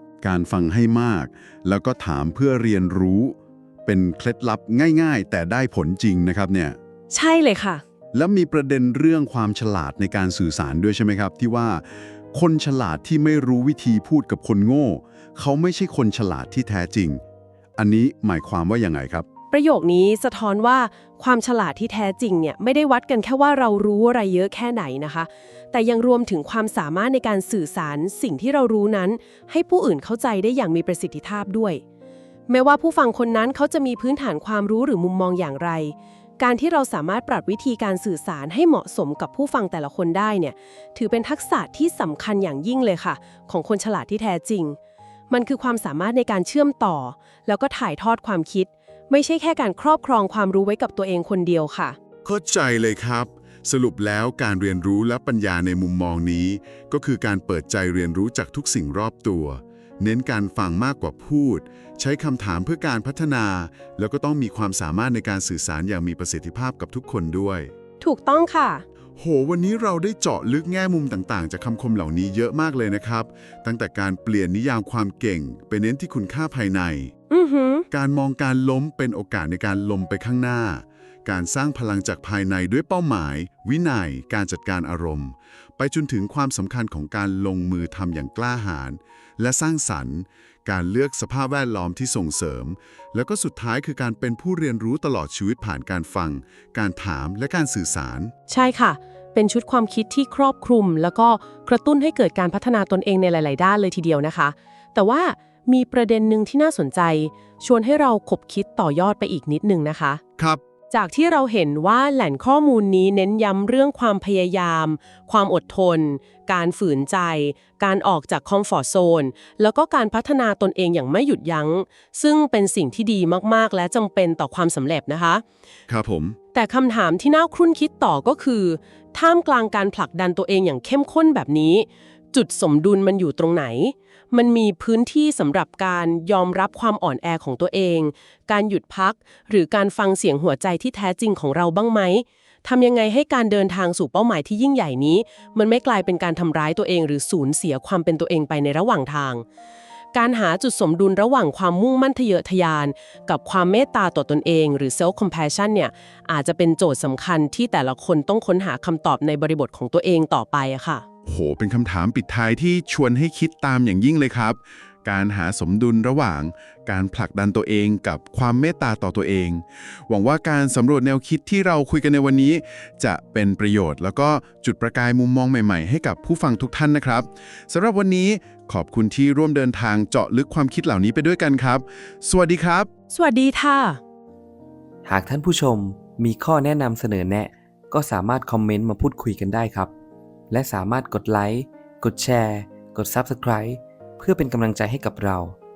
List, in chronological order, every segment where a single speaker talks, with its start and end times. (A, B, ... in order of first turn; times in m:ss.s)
0:00.2-0:06.8 A
0:07.1-0:07.8 B
0:08.1-0:17.2 A
0:17.8-0:19.2 A
0:19.5-0:31.8 B
0:32.5-0:44.8 B
0:45.3-0:52.0 B
0:52.2-1:07.7 A
1:08.0-1:08.8 B
1:09.2-1:17.1 A
1:17.3-1:17.8 B
1:17.9-1:38.3 A
1:38.5-1:50.2 B
1:50.9-2:05.4 B
2:05.9-2:06.4 A
2:06.5-2:29.4 B
2:30.1-2:41.0 B
2:41.2-3:02.9 A
3:03.1-3:04.0 B
3:05.0-3:09.9 C
3:10.5-3:15.6 C